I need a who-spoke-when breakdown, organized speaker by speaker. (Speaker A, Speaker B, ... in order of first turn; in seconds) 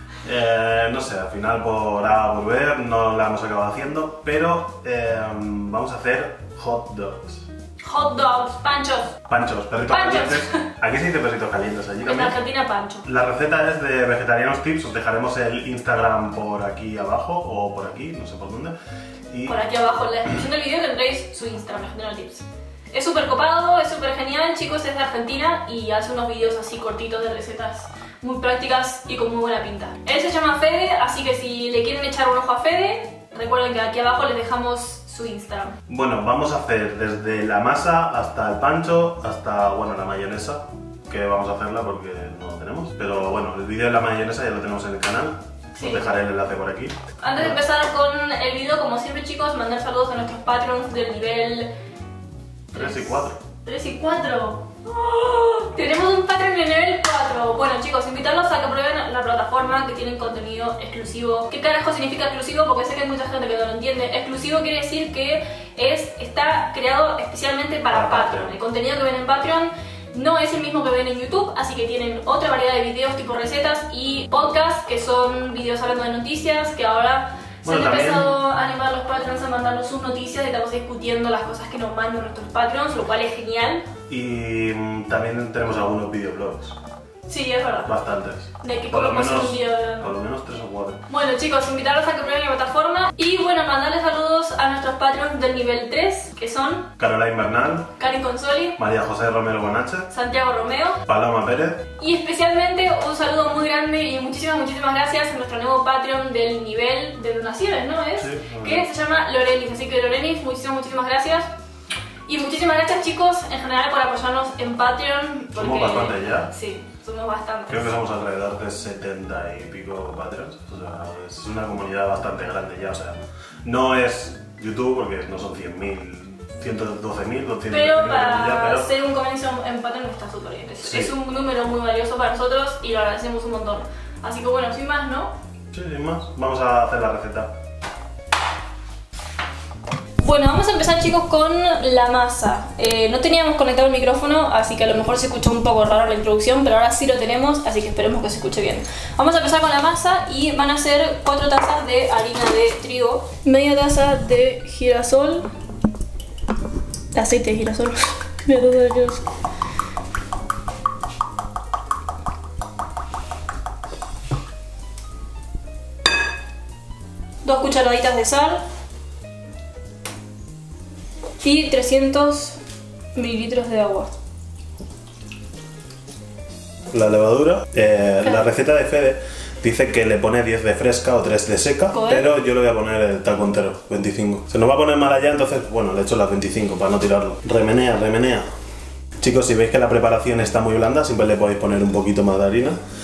Speaker A: 0.2-7.5, 9.2-12.4, 13.0-18.7, 19.3-19.6, 35.9-47.6, 52.7-53.4, 67.9-68.5, 77.6-78.3, 84.1-86.8, 87.8-91.0, 97.0-97.9, 98.8-100.1, 101.0-101.9, 108.2-108.8, 115.5-116.5, 117.7-128.9, 130.8-131.1, 135.7-137.5, 176.9-188.5, 189.2-192.8
Speaker B: 7.8-9.1, 9.9-10.6, 12.0-13.0, 19.5-35.8, 45.8-46.1, 47.2-51.7, 52.7-83.8, 87.3-87.9, 88.6-90.2, 91.1-96.9, 98.0-98.8, 100.1-101.0, 102.0-111.5, 112.3-117.8, 127.7-135.3, 140.2-155.5, 157.1-159.2, 167.4-168.6, 171.4-172.6, 173.1-174.1, 181.9-182.3